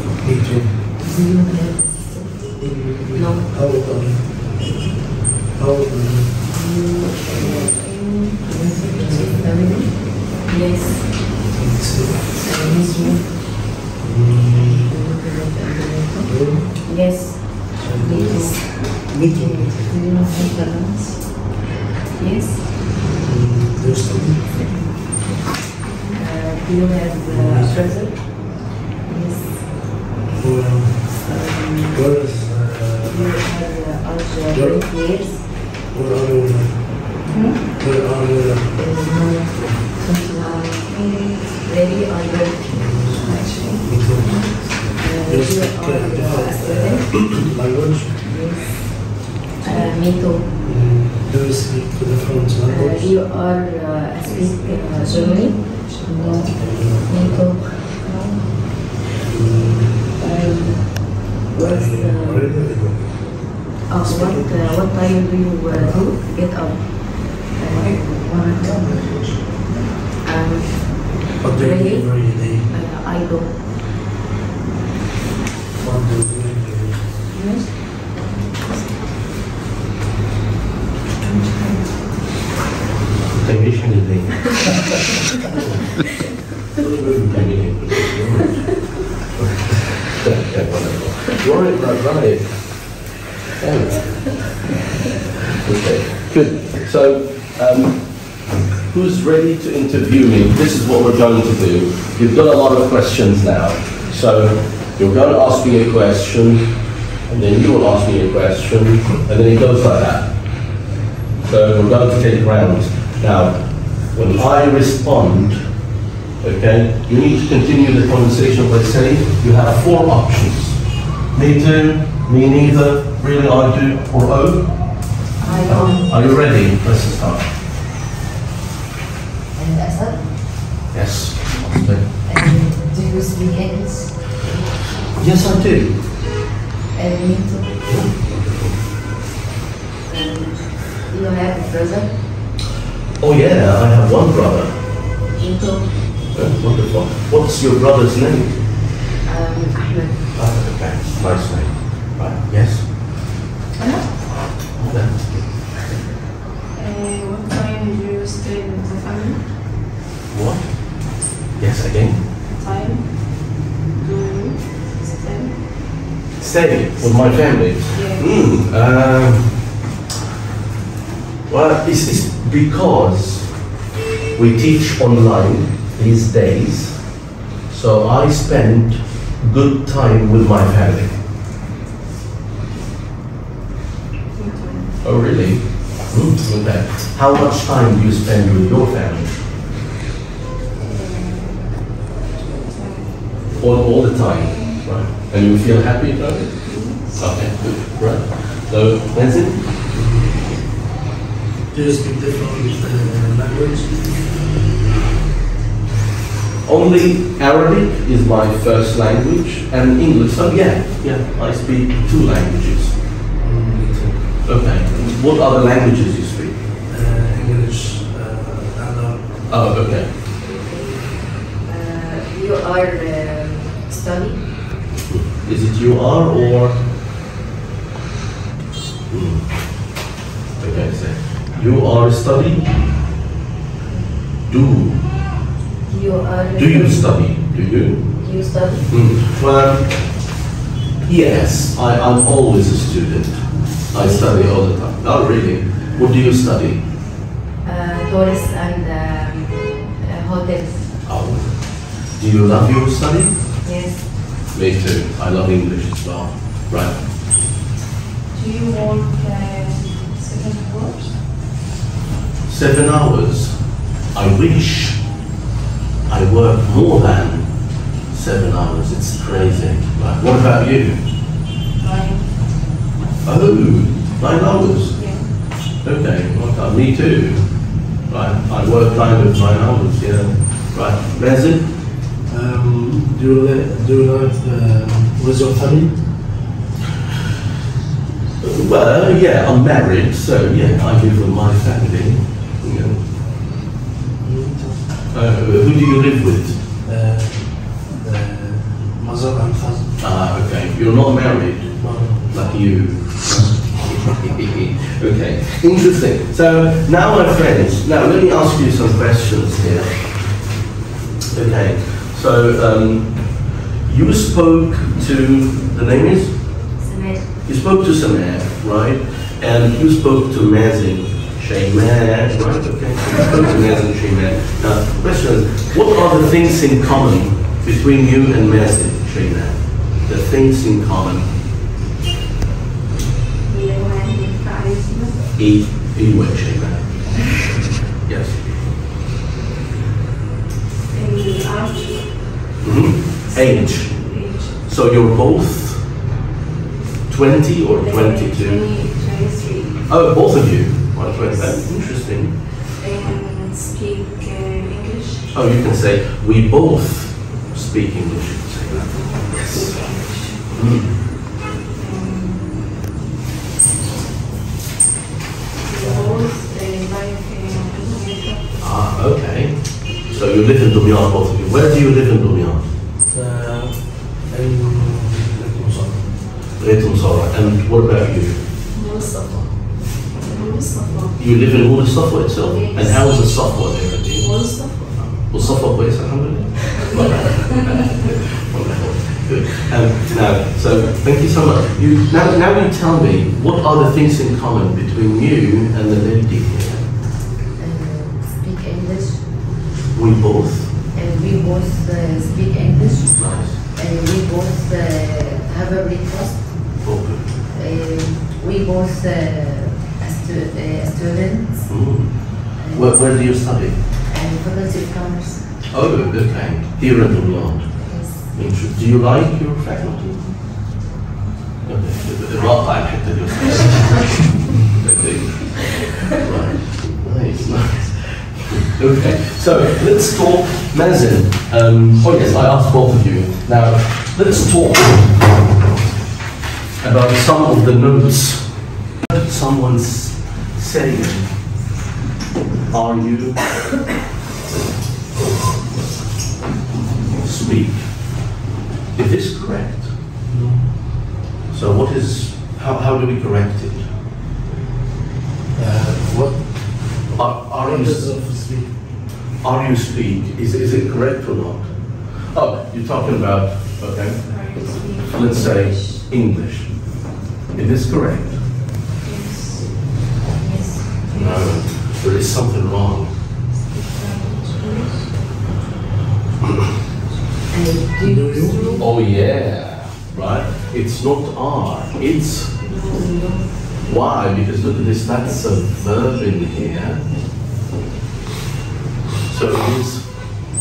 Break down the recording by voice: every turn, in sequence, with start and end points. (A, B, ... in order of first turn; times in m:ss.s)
0:00.2-0:00.9 A
0:01.0-0:03.5 B
0:02.6-0:04.8 A
0:05.5-0:06.4 A
0:06.4-0:11.1 B
0:07.3-0:09.8 C
0:11.5-0:12.3 A
0:12.4-0:13.3 B
0:12.5-0:13.3 C
0:14.0-0:15.0 A
0:14.7-0:21.5 B
0:16.2-0:16.9 A
0:17.8-0:20.0 A
0:22.2-0:22.7 B
0:23.0-0:24.6 A
0:24.1-0:25.3 B
0:25.8-0:26.3 C
0:26.2-0:32.5 B
0:27.3-0:28.1 A
0:30.4-0:33.4 A
0:33.0-0:35.5 B
0:34.5-0:35.0 A
0:35.9-0:39.8 A
0:37.3-0:37.7 C
0:38.8-0:43.8 B
0:40.5-0:42.0 C
0:42.7-0:43.3 A
0:43.1-0:45.0 C
0:43.8-0:48.2 A
0:45.0-0:47.4 B
0:48.2-0:50.5 B
0:49.6-0:53.1 A
0:52.7-0:58.2 B
0:54.2-0:57.0 C
0:56.4-0:57.6 A
0:58.0-0:58.7 C
0:59.2-1:06.1 A
1:00.2-1:02.7 B
1:03.9-1:09.5 B
1:07.7-1:08.2 C
1:08.4-1:09.6 A
1:09.7-1:09.9 C
1:10.2-1:13.6 B
1:11.4-1:12.7 A
1:15.8-1:17.2 A
1:17.3-1:19.2 C
1:21.2-1:22.3 C
1:23.3-1:25.0 D
1:26.8-1:34.6 D
1:35.6-1:50.9 D
1:51.4-1:55.8 D
1:56.4-2:07.5 D
2:05.4-2:06.4 B
2:05.4-2:06.0 C
2:09.6-2:10.3 B
2:10.9-2:12.1 D
2:12.2-2:14.8 B
2:15.2-2:16.0 D
2:16.9-2:18.1 B
2:17.9-2:18.8 D
2:20.1-2:22.3 B
2:23.2-2:24.9 D
2:25.4-2:26.1 B
2:26.3-2:28.6 D
2:29.2-2:30.3 B
2:30.4-2:33.0 D
2:33.8-2:34.1 C
2:34.7-2:35.6 D
2:36.7-2:39.5 C
2:40.3-2:42.3 D
2:42.5-2:45.8 C
2:46.4-2:49.7 D
2:47.0-2:47.3 C
2:47.8-2:48.5 C
2:51.5-2:53.7 D
2:54.3-3:01.2 D
3:04.3-3:05.0 C
3:05.0-3:09.4 D
3:10.8-3:15.0 C
3:13.6-3:19.7 D
3:16.6-3:17.3 C
3:19.9-3:20.6 A
3:21.7-3:24.3 A
3:26.6-3:36.6 D
3:31.9-3:32.2 A
3:33.4-3:34.3 A
3:36.9-3:39.8 A
3:39.5-3:40.1 D
3:40.4-3:44.6 B
3:45.1-3:46.9 D
3:49.1-3:49.7 D
3:50.6-3:52.8 D
3:54.5-3:55.0 D
3:55.8-3:57.3 B
3:56.5-3:58.2 D
3:58.2-3:58.9 B
3:58.9-4:00.3 D
4:01.0-4:06.9 D
4:04.0-4:04.5 B
4:07.6-4:10.9 B
4:11.0-4:13.4 D
4:13.6-4:14.0 B
4:14.5-4:17.0 D
4:18.3-4:21.2 C
4:22.5-4:25.0 D
4:26.1-4:31.0 D
4:31.8-4:32.6 C
4:33.2-4:41.7 D
4:35.0-4:35.4 C
4:42.3-4:46.3 A
4:48.4-4:53.0 D
4:54.2-4:55.0 A
4:55.1-4:56.6 D
4:56.8-5:00.0 A
5:00.0-5:10.5 D
5:01.8-5:02.4 A
5:11.3-5:16.7 D
5:16.8-5:17.2 B
5:17.4-5:31.3 D
5:33.5-5:35.3 C
5:35.4-5:38.8 D
5:40.9-5:42.6 C
5:42.6-5:45.9 D
5:43.2-5:44.6 C
5:47.1-5:48.6 D
5:47.8-5:50.1 C
5:49.9-5:52.4 D
5:51.0-5:51.7 C
5:52.7-5:55.4 C
5:55.3-5:59.8 D
5:58.6-6:00.9 C
6:00.5-6:00.8 D
6:01.8-6:02.7 C
6:05.6-6:08.6 C
6:05.8-6:06.3 A
6:08.6-6:12.7 D
6:13.0-6:16.2 A
6:16.6-6:18.5 D
6:18.6-6:21.2 C
6:21.2-6:36.9 D
6:22.5-6:23.5 C
6:24.2-6:25.7 C
6:26.6-6:28.1 C
6:37.6-6:39.4 B
6:39.9-6:40.7 D
6:40.9-6:46.9 B
6:43.2-6:43.6 D
6:46.8-6:47.3 D
6:47.5-6:51.8 B
6:51.7-6:53.8 D
6:52.6-6:53.2 B
6:54.0-6:55.5 B
6:55.7-7:00.3 D
6:57.8-6:58.3 B
7:01.6-7:15.2 D
7:16.8-7:21.3 D
7:22.7-7:23.7 D
7:27.2-7:28.2 D
7:28.9-7:29.9 D
7:30.2-7:31.1 A
7:31.5-7:33.9 D
7:35.5-7:38.8 A
7:37.2-7:38.2 D
7:39.4-7:44.2 D
7:44.2-7:46.1 C
7:45.0-7:46.8 D
7:47.5-7:48.4 D
7:49.0-7:51.7 C
7:51.1-7:53.1 D
7:53.5-7:55.3 C
7:57.5-7:58.8 B
7:58.0-7:58.6 A
7:58.4-7:58.9 C
7:58.8-8:02.6 D
8:02.6-8:03.4 C
8:02.7-8:03.5 B
8:03.8-8:07.1 D
8:09.3-8:10.3 D